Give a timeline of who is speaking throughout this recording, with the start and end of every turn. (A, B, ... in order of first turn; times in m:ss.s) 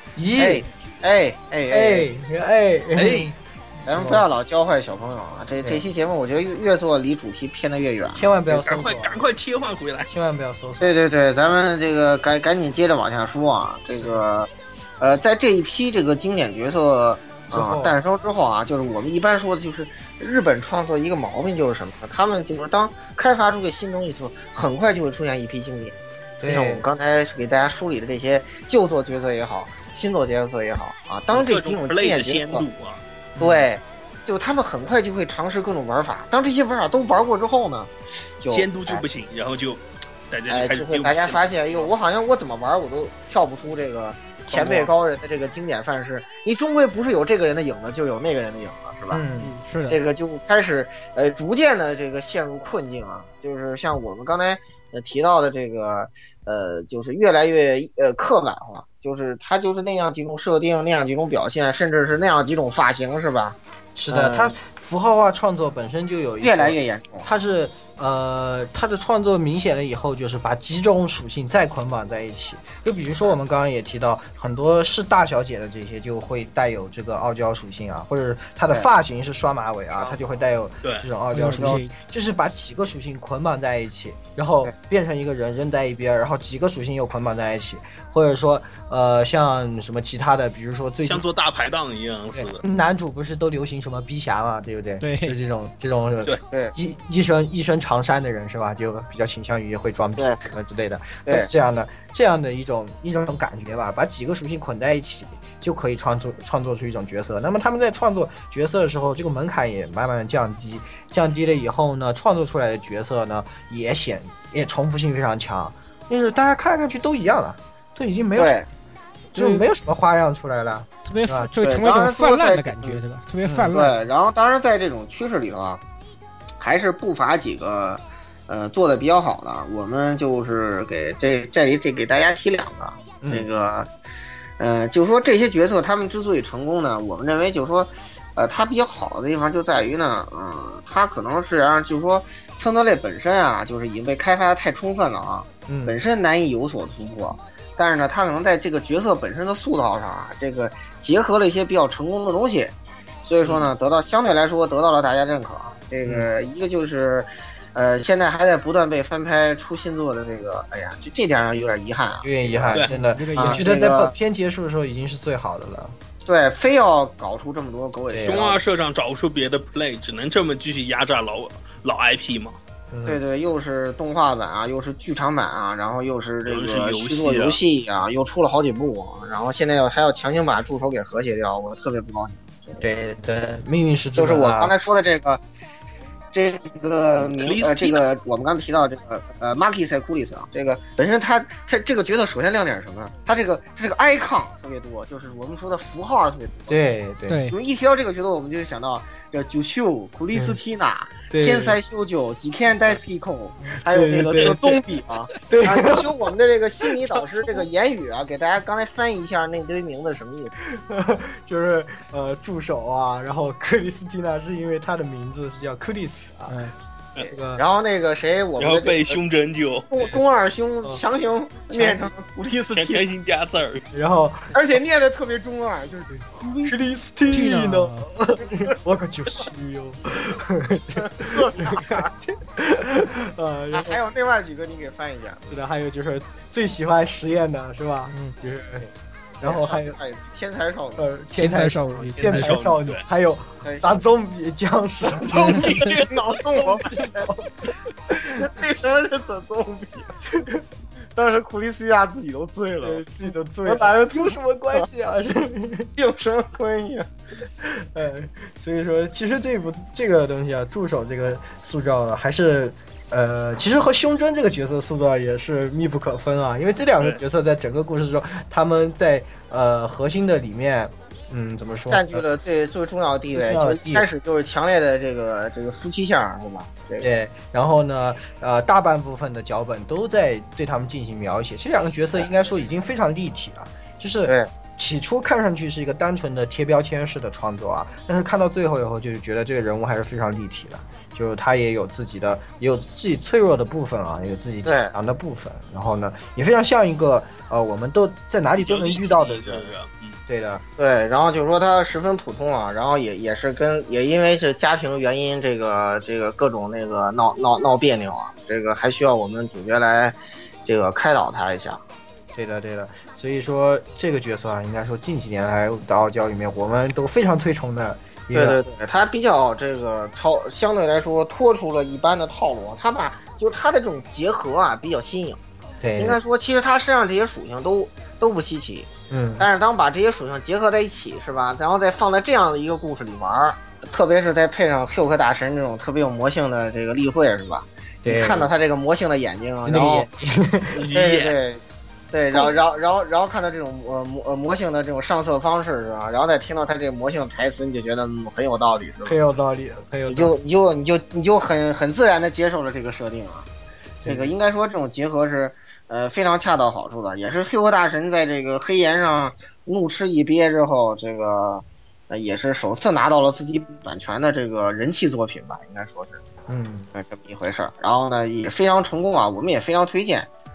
0:00.2-0:00.6 A
0:00.3-0:02.1 B
0:01.7-0:04.2 A
0:03.0-0:03.3 C
0:03.9-0:08.3 B
0:05.6-0:05.8 A
0:08.1-0:09.2 A
0:08.5-0:10.1 C
0:10.1-0:11.0 A
0:10.8-0:32.6 B
0:13.9-0:14.2 A
0:17.5-0:18.0 A
0:26.4-0:26.9 A
0:31.3-0:33.0 C
0:33.4-0:33.7 A
0:33.4-0:39.0 B
0:38.5-0:41.9 C
0:40.5-0:49.2 B
0:44.5-0:44.9 C
0:49.1-0:49.5 A
0:49.4-0:50.0 D
0:49.9-1:03.6 B
1:03.9-1:31.3 A
1:04.1-1:04.5 B
1:06.4-1:07.3 B
1:21.3-1:21.9 D
1:21.5-1:21.8 B
1:31.0-1:32.6 C
1:32.3-1:58.6 A
1:35.0-1:35.4 D
1:36.5-1:36.7 B
1:58.4-1:58.7 B
1:59.3-2:01.5 A
1:59.3-1:59.7 D
2:01.0-2:04.0 D
2:01.6-2:03.0 B
2:03.4-2:03.8 A
2:03.7-2:05.8 B
2:06.6-2:13.9 B
2:13.2-2:13.5 A
2:14.6-2:42.8 B
2:25.7-2:26.0 A
2:42.2-2:46.0 A
2:42.9-2:43.7 D
2:43.4-2:44.1 B
2:46.2-2:48.6 B
2:48.1-2:48.4 A
2:48.2-2:52.6 C
2:52.9-2:53.2 A
2:53.0-3:02.9 B
2:56.5-2:57.6 C
3:02.8-3:04.7 A
3:04.2-3:05.4 B
3:06.3-3:16.8 B
3:07.2-3:08.0 C
3:16.7-3:17.4 A
3:17.3-3:17.6 D
3:17.5-3:30.5 B
3:20.3-3:20.6 A
3:21.3-3:21.8 A
3:23.8-3:24.8 A
3:25.5-3:26.1 A
3:27.2-3:27.6 A
3:30.7-3:37.6 A
3:36.5-3:36.7 D
3:37.5-3:39.2 B
3:38.6-3:39.9 C
3:39.9-3:43.0 B
3:41.7-3:42.1 A
3:42.7-3:43.8 C
3:43.9-3:44.5 A
3:44.5-3:46.8 B
3:46.6-3:54.0 A
3:47.3-3:48.1 D
3:51.0-3:52.1 B
3:53.7-3:55.6 B
3:55.5-3:58.9 A
3:59.4-4:00.0 A
3:59.4-4:01.1 B
4:01.0-4:07.5 A
4:01.4-4:02.5 D
4:02.2-4:03.0 C
4:05.1-4:07.3 B
4:08.1-4:08.4 A
4:08.2-4:10.1 B
4:10.3-4:10.6 A
4:11.1-4:13.0 B
4:12.8-4:15.9 A
4:13.6-4:14.8 B
4:15.9-4:17.1 B
4:17.6-4:32.2 A
4:31.9-4:37.1 B
4:33.3-4:34.1 A
4:37.0-4:59.7 A
4:54.6-4:54.9 B
4:58.6-5:00.2 C
5:00.3-5:00.6 A
5:00.8-5:11.8 B
5:12.3-5:18.6 A
5:18.3-5:25.4 B
5:25.8-5:26.2 A
5:26.0-5:40.1 B
5:29.1-5:29.5 A
5:38.0-5:38.5 A
5:39.6-5:40.8 A
5:40.7-5:41.4 C
5:40.9-5:49.2 B
5:49.0-5:50.3 A
5:50.1-5:53.5 B
5:54.0-5:54.3 A
5:54.0-6:06.2 B
6:06.5-6:06.9 A
6:06.9-6:10.3 B